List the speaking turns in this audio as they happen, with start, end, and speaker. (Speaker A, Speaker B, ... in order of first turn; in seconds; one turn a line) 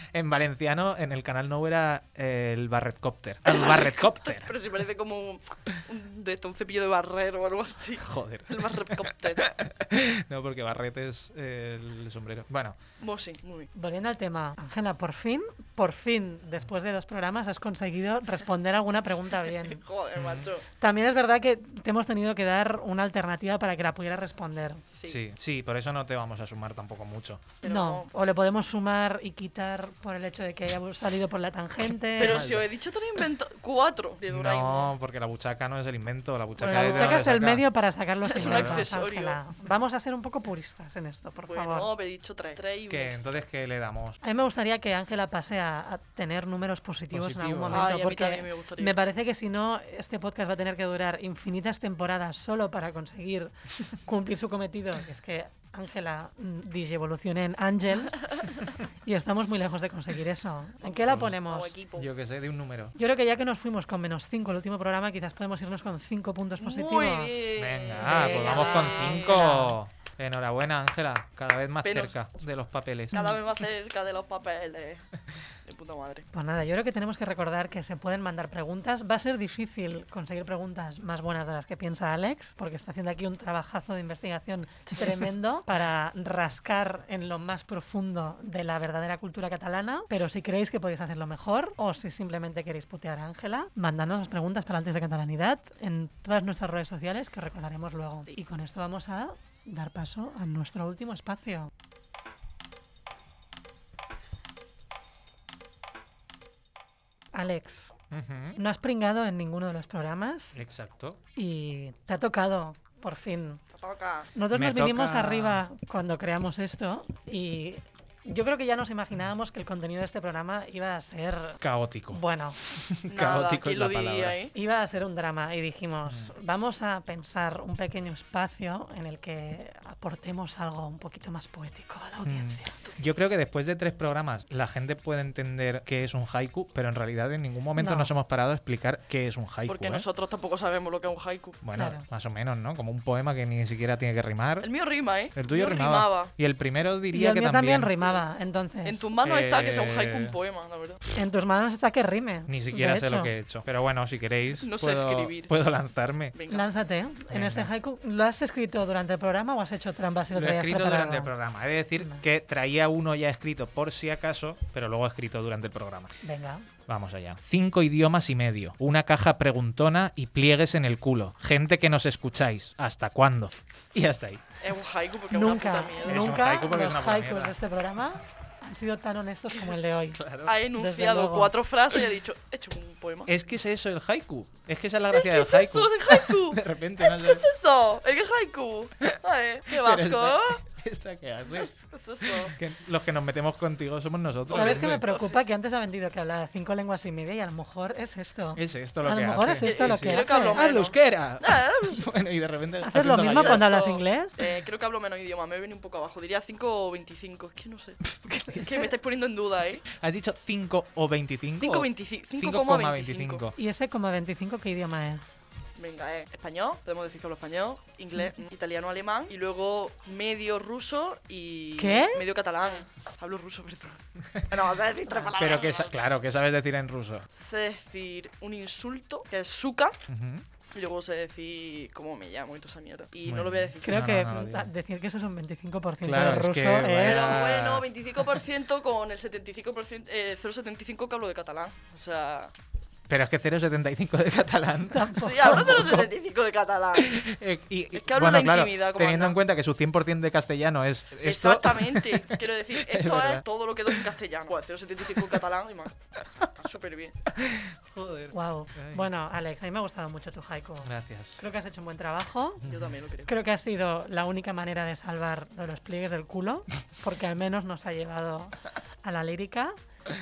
Speaker A: 0.1-4.6
Speaker B: 3.5-9.5
Speaker A: 8.0-12.8
Speaker B: 13.0-13.7
Speaker C: 13.7-19.8
Speaker B: 19.6-20.6
Speaker A: 20.2-20.5
Speaker C: 20.8-24.8
Speaker B: 24.9-25.2
Speaker A: 25.1-27.4
Speaker B: 27.6-28.1
Speaker C: 27.6-32.5
Speaker B: 32.2-34.9
Speaker A: 32.2-32.7
Speaker A: 34.3-37.7
Speaker B: 36.6-37.3
Speaker C: 36.6-41.9
Speaker B: 38.3-39.4
Speaker A: 38.4-38.9
Speaker B: 41.5-43.3
Speaker A: 42.9-44.2
Speaker C: 44.2-61.7
Speaker A: 47.1-47.9
Speaker B: 47.7-49.0
Speaker B: 60.8-62.1
Speaker A: 62.0-63.0
Speaker C: 63.0-69.8
Speaker B: 66.6-69.4
Speaker A: 67.5-73.2
Speaker B: 71.8-72.2
Speaker C: 73.1-73.4
Speaker B: 73.1-75.0
Speaker B: 75.7-76.3
Speaker C: 76.3-101.7
Speaker B: 84.9-85.2
Speaker C: 107.3-107.9
Speaker A: 108.1-108.6
Speaker C: 108.6-110.6
Speaker A: 110.5-111.2
Speaker C: 111.4-113.6
Speaker B: 113.8-114.3
Speaker C: 114.3-122.6
Speaker A: 114.5-115.6
Speaker A: 121.6-124.4
Speaker B: 123.1-124.5
Speaker C: 124.5-132.8
Speaker A: 126.1-126.3
Speaker A: 132.3-140.1
Speaker C: 137.8-138.1
Speaker B: 139.7-141.6
Speaker A: 141.6-144.7
Speaker C: 141.7-142.0
Speaker B: 144.6-146.3
Speaker A: 145.3-147.9
Speaker C: 147.1-149.1
Speaker B: 148.8-151.0
Speaker A: 149.2-150.3
Speaker C: 151.2-153.3
Speaker A: 152.5-156.3
Speaker B: 154.6-155.5
Speaker B: 156.3-156.7
Speaker C: 156.5-161.3
Speaker A: 157.3-157.7
Speaker A: 160.3-166.1
Speaker C: 162.0-162.2
Speaker C: 166.2-166.7
Speaker A: 166.9-174.4
Speaker B: 174.6-176.4
Speaker C: 175.3-181.6
Speaker A: 176.0-177.6
Speaker A: 180.1-180.6
Speaker B: 180.4-183.3
Speaker A: 183.3-187.5
Speaker B: 185.1-190.6
Speaker A: 189.7-191.7
Speaker B: 191.5-192.6
Speaker A: 192.4-195.0
Speaker B: 194.5-195.4
Speaker C: 194.5-200.7
Speaker A: 198.6-203.7
Speaker B: 199.6-202.1
Speaker C: 202.8-204.4
Speaker B: 203.2-208.0
Speaker C: 208.3-208.9
Speaker B: 208.5-209.8
Speaker A: 209.9-213.6
Speaker B: 211.6-213.4
Speaker C: 213.6-215.4
Speaker B: 215.8-226.0
Speaker C: 221.8-222.2
Speaker C: 225.1-225.3
Speaker A: 225.4-227.3
Speaker B: 227.3-230.0
Speaker A: 230.1-230.5
Speaker B: 230.7-234.2
Speaker A: 233.3-234.7
Speaker C: 233.8-237.4
Speaker A: 236.0-237.9
Speaker B: 237.0-242.5
Speaker A: 243.1-246.1
Speaker C: 244.9-245.9
Speaker B: 245.2-247.3
Speaker A: 247.0-254.0
Speaker B: 247.9-249.4
Speaker B: 251.2-257.2
Speaker A: 256.2-256.5
Speaker A: 257.4-259.1
Speaker C: 258.3-262.6
Speaker A: 260.8-261.4
Speaker A: 262.6-263.0
Speaker B: 262.6-263.3
Speaker C: 263.3-269.8